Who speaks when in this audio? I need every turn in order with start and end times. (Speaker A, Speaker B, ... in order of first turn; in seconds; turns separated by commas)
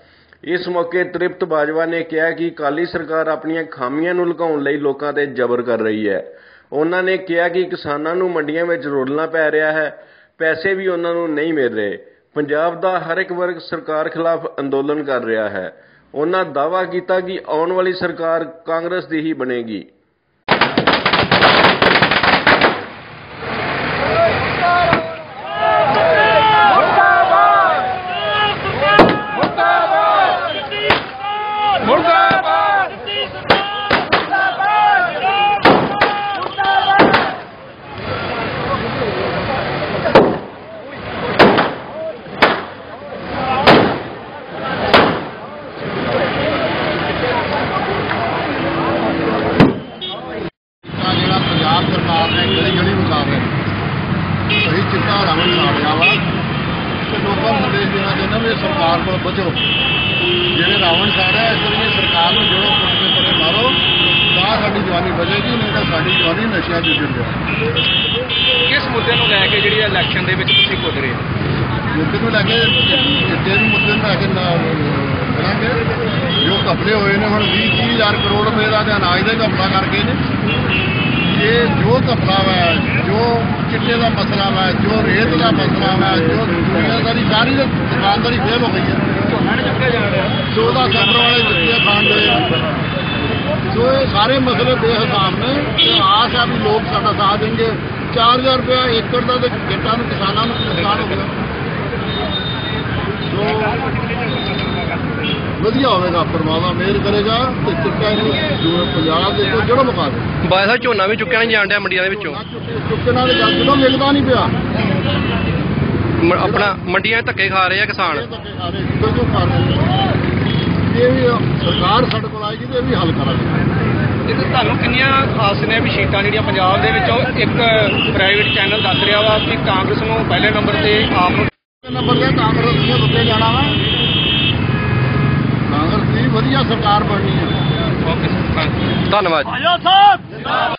Speaker A: 0.4-19.9, Speaker B: 50.9-53.5, Speaker B: 54.6-56.2, Speaker B: 57.0-59.7, Speaker B: 60.5-63.8, Speaker B: 64.3-67.4, Speaker C: 68.7-71.2, Speaker B: 71.9-75.8, Speaker B: 76.4-80.2, Speaker B: 81.2-89.0, Speaker B: 90.5-92.5, Speaker B: 93.7-101.3, Speaker B: 103.3-103.8, Speaker B: 105.6-110.3, Speaker D: 110.4-112.4, Speaker B: 112.1-114.5, Speaker D: 116.2-118.2, Speaker B: 118.1-120.0, Speaker B: 120.9-123.6, Speaker C: 124.3-131.5, Speaker B: 131.8-133.8, Speaker B: 135.7-137.5, Speaker C: 138.0-138.9, Speaker D: 139.1-139.6